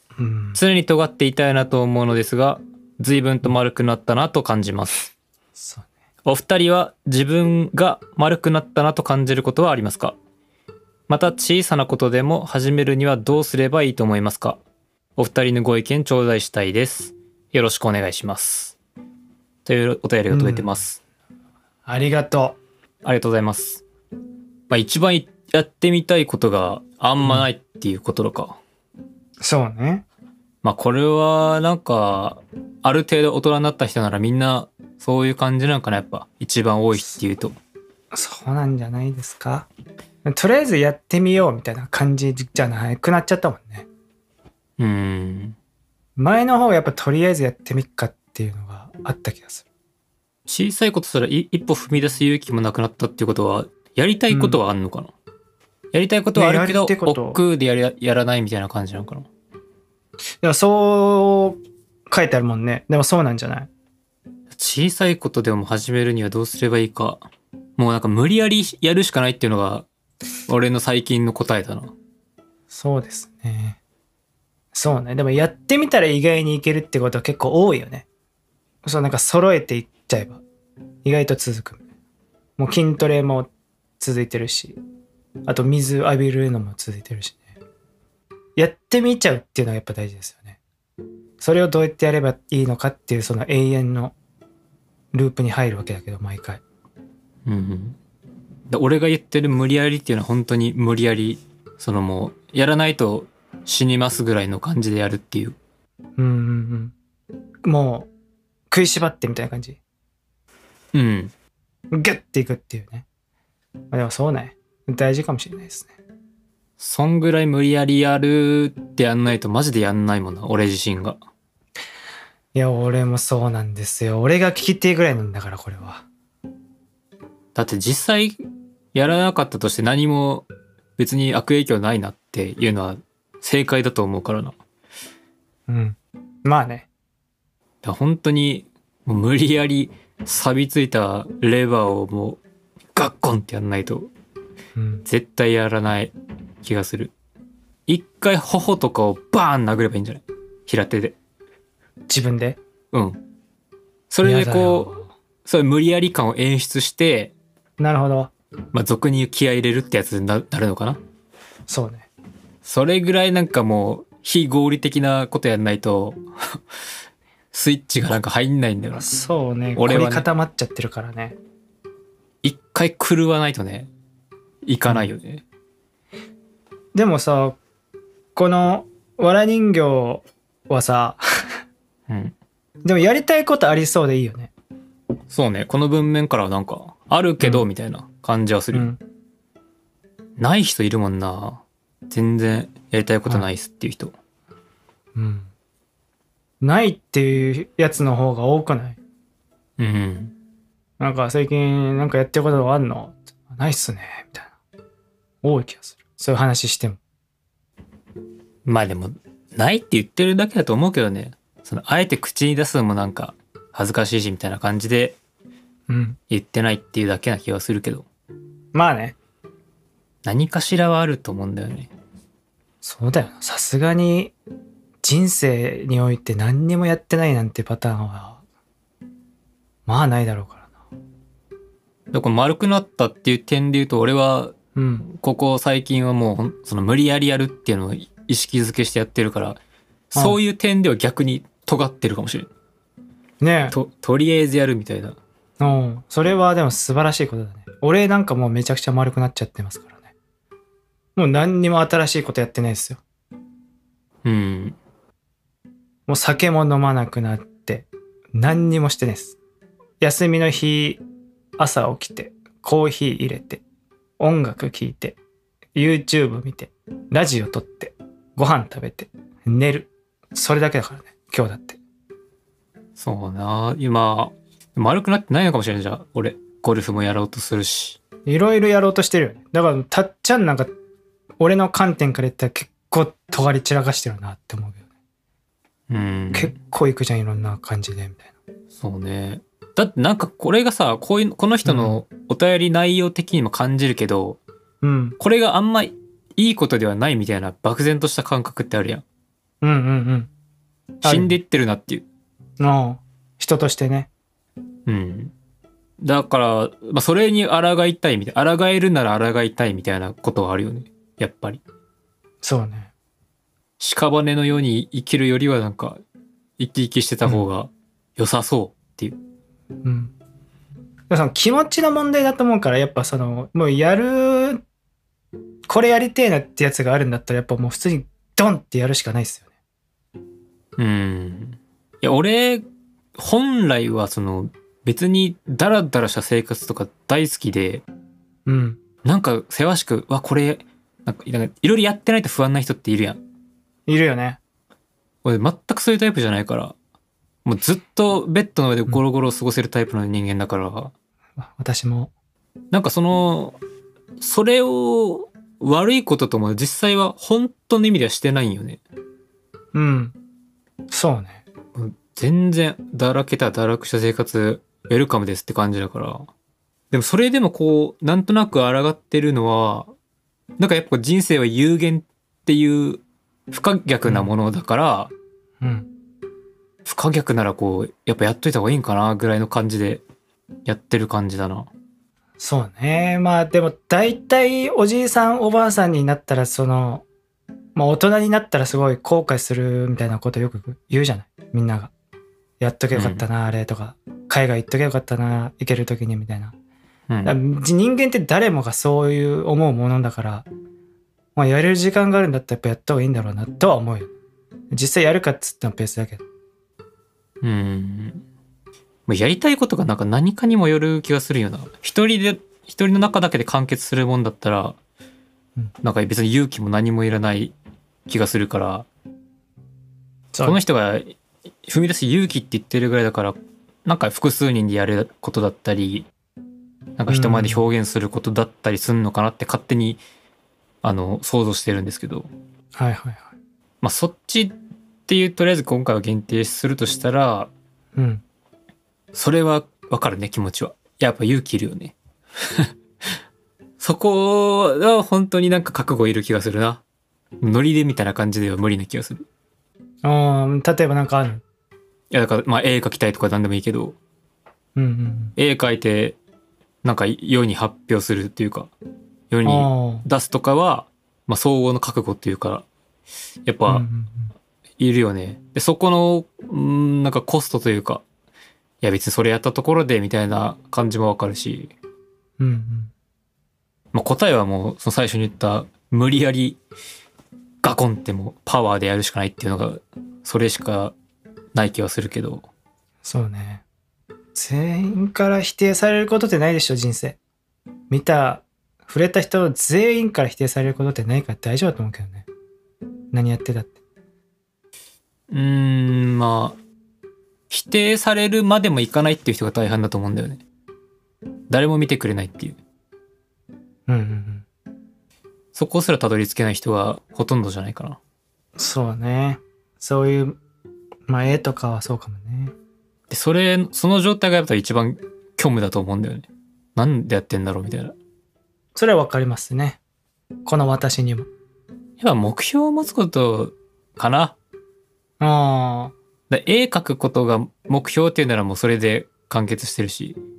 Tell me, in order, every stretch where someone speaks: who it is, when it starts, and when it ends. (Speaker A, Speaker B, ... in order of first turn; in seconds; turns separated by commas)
Speaker A: 0.2-0.6, Speaker B: 0.6-5.1, Speaker A: 5.6-5.9, Speaker B: 6.2-10.2, Speaker B: 11.1-14.6, Speaker B: 15.2-18.8, Speaker B: 19.6-21.0, Speaker A: 20.3-20.7, Speaker A: 21.9-22.6, Speaker B: 23.0-23.8, Speaker B: 24.7-28.6, Speaker A: 29.4-30.1, Speaker B: 30.6-37.6, Speaker A: 38.1-39.7, Speaker A: 40.2-43.9, Speaker B: 44.8-45.6, Speaker A: 46.2-49.6, Speaker B: 50.5-55.1, Speaker A: 54.3-54.6, Speaker B: 55.9-59.3, Speaker A: 56.4-57.4, Speaker A: 60.4-61.6, Speaker A: 62.1-63.7, Speaker B: 64.5-67.2, Speaker B: 67.8-69.9, Speaker B: 70.5-71.9, Speaker A: 72.7-73.8, Speaker A: 74.7-78.1, Speaker A: 78.8-80.4, Speaker A: 81.0-81.8, Speaker A: 82.6-84.8, Speaker A: 85.5-87.5, Speaker A: 88.6-90.6, Speaker A: 91.4-94.1, Speaker A: 95.1-96.6, Speaker B: 97.5-98.0, Speaker B: 98.7-105.6, Speaker A: 106.2-106.9, Speaker A: 107.6-108.1, Speaker A: 108.7-109.8, Speaker B: 110.9-111.3, Speaker A: 111.9-113.0, Speaker A: 113.9-115.9, Speaker B: 116.8-121.2, Speaker A: 122.5-126.0, Speaker B: 127.5-128.4, Speaker B: 128.9-130.5, Speaker B: 131.0-134.6, Speaker A: 135.7-136.9, Speaker B: 137.8-142.4, Speaker B: 142.9-144.1, Speaker A: 144.8-145.0, Speaker B: 145.1-147.1, Speaker B: 147.9-151.2, Speaker A: 152.1-152.6, Speaker B: 152.9-153.2, Speaker B: 154.1-157.3, Speaker A: 154.2-155.1, Speaker A: 157.8-158.3, Speaker B: 158.7-161.0, Speaker A: 161.7-162.1, Speaker B: 162.6-166.6, Speaker B: 167.5-169.1, Speaker A: 169.0-171.4, Speaker B: 169.8-170.3, Speaker B: 172.4-173.9, Speaker B: 174.7-175.4, Speaker A: 176.9-177.6, Speaker A: 178.4-181.2, Speaker B: 182.1-182.3, Speaker A: 182.8-184.5, Speaker B: 185.3-188.9, Speaker A: 188.7-189.0, Speaker B: 190.4-194.1, Speaker A: 195.2-195.5, Speaker A: 196.6-199.0, Speaker B: 199.8-200.3, Speaker A: 201.0-204.6, Speaker A: 205.4-207.0, Speaker B: 208.7-215.2, Speaker A: 215.9-216.2, Speaker B: 216.3-218.1, Speaker A: 218.7-219.2, Speaker B: 220.2-221.9, Speaker A: 222.8-224.3, Speaker A: 225.0-228.4, Speaker A: 229.9-230.7, Speaker B: 232.1-239.6, Speaker A: 234.8-235.1, Speaker B: 240.1-242.5, Speaker A: 243.4-243.8, Speaker B: 243.7-245.2, Speaker A: 245.6-250.1, Speaker A: 251.2-253.0, Speaker B: 254.2-254.8, Speaker A: 256.1-259.4, Speaker A: 260.0-261.0, Speaker A: 261.6-263.6, Speaker A: 264.2-265.2, Speaker A: 265.8-271.8, Speaker B: 273.0-278.0, Speaker A: 278.3-280.7, Speaker A: 281.4-284.8, Speaker B: 285.9-286.5, Speaker A: 286.3-288.3, Speaker B: 288.7-294.4, Speaker A: 291.6-292.0, Speaker A: 294.8-295.2, Speaker B: 295.2-299.0, Speaker A: 299.6-300.3, Speaker A: 301.0-301.4, Speaker B: 301.0-302.1, Speaker A: 302.6-304.1, Speaker B: 304.9-305.3, Speaker B: 306.0-311.6, Speaker A: 312.4-312.9, Speaker B: 313.8-316.0, Speaker B: 316.6-319.2, Speaker A: 319.8-320.1, Speaker A: 321.1-324.6, Speaker A: 325.7-329.5, Speaker B: 330.8-332.6, Speaker B: 333.2-337.8, Speaker A: 338.5-338.8, Speaker B: 339.0-343.2, Speaker A: 343.9-344.4, Speaker B: 345.2-346.8, Speaker B: 347.4-350.9, Speaker A: 351.4-352.1, Speaker B: 352.7-353.6, Speaker B: 354.2-358.8, Speaker A: 359.7-360.1, Speaker A: 360.9-361.4, Speaker B: 361.8-366.3, Speaker B: 366.9-369.9, Speaker B: 370.6-375.1, Speaker A: 375.6-375.9, Speaker B: 376.9-380.0, Speaker B: 380.7-381.7, Speaker A: 382.4-387.0, Speaker A: 387.8-391.9, Speaker A: 392.6-396.6, Speaker B: 392.9-393.2, Speaker B: 397.1-397.4, Speaker A: 397.2-400.5, Speaker A: 401.4-404.1, Speaker A: 404.7-406.2, Speaker B: 407.4-408.2, Speaker B: 409.1-414.8, Speaker B: 415.8-417.5, Speaker B: 418.1-418.9, Speaker A: 420.3-420.6, Speaker B: 420.4-426.1, Speaker B: 427.0-430.0, Speaker A: 427.1-427.6, Speaker B: 430.8-432.3, Speaker A: 432.8-433.3, Speaker B: 433.8-434.6, Speaker B: 435.1-437.5, Speaker A: 438.0-438.2, Speaker B: 439.1-443.1, Speaker B: 443.8-446.8, Speaker B: 447.4-449.2, Speaker A: 450.0-451.4, Speaker B: 452.1-454.0, Speaker A: 454.8-455.3, Speaker B: 455.4-456.2, Speaker B: 456.8-458.7, Speaker B: 459.3-462.6, Speaker A: 459.4-460.1, Speaker B: 463.5-463.9, Speaker A: 463.7-464.3, Speaker B: 464.8-468.0, Speaker B: 468.8-471.7, Speaker A: 472.4-472.9, Speaker B: 473.9-476.6, Speaker B: 477.6-480.9, Speaker B: 481.6-482.5, Speaker A: 483.0-483.6, Speaker A: 484.4-487.2, Speaker A: 487.9-492.3, Speaker A: 493.1-493.8, Speaker B: 495.3-496.6, Speaker B: 497.5-500.4, Speaker B: 501.5-502.6, Speaker A: 503.9-504.5, Speaker B: 505.5-508.0, Speaker A: 508.6-510.4, Speaker A: 511.1-512.5, Speaker B: 513.1-518.0, Speaker A: 518.8-519.8, Speaker A: 520.5-521.3, Speaker B: 522.0-524.4, Speaker A: 525.2-525.9, Speaker B: 526.3-530.2